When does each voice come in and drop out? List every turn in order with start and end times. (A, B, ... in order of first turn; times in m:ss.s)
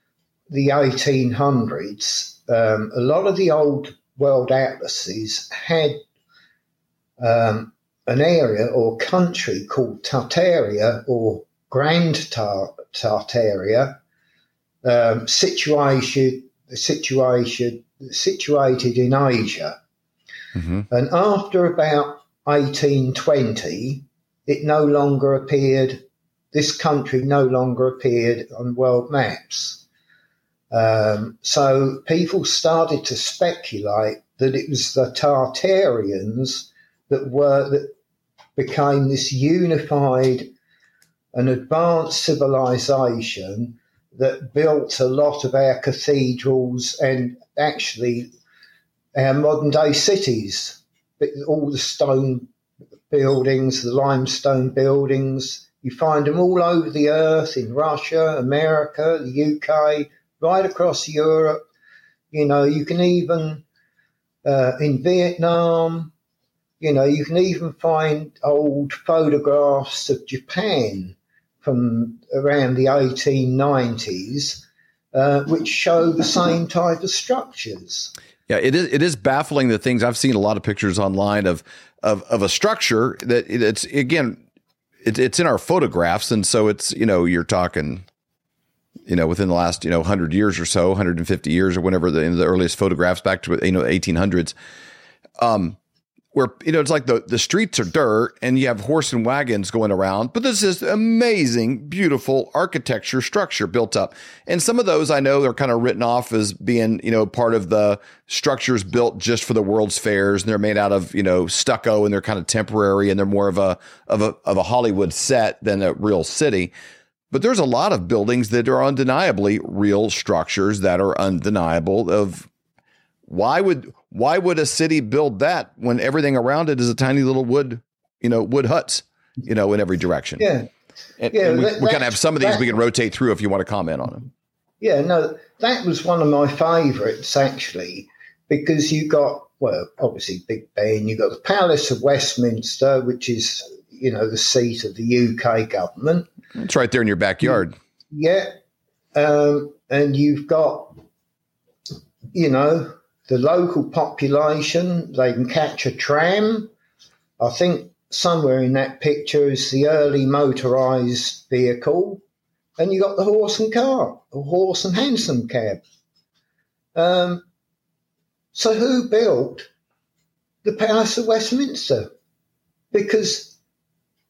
0:00.5-0:06.0 A
0:07.2-0:14.0 A
0:14.8-0:19.8 A
0:20.9-0:29.8 A
0:30.7-0:37.9 A
0:38.6-0:40.5 A
0:41.3-0:48.3 A
0:49.1-0:52.5 A
0:53.1-1:01.6 A
1:02.3-1:03.6 A
1:04.4-1:06.1 A
1:06.8-1:18.1 A
1:18.5-1:24.4 B
1:25.0-1:28.0 B
1:29.1-1:34.5 B
1:35.4-1:35.8 B
1:36.3-1:56.7 B
1:57.3-2:02.5 B
2:03.3-2:10.5 B
2:10.4-2:10.7 A
2:11.2-2:14.3 B
2:11.3-2:12.7 A
2:14.8-2:26.3 A
2:26.6-2:27.7 B
2:28.1-2:28.5 A
2:29.1-2:31.0 A
2:32.3-2:36.7 A
2:37.4-2:42.2 A
2:42.8-2:45.8 A
2:46.9-2:47.4 A
2:48.5-2:49.7 A
2:50.6-2:52.1 A
2:52.9-2:53.6 A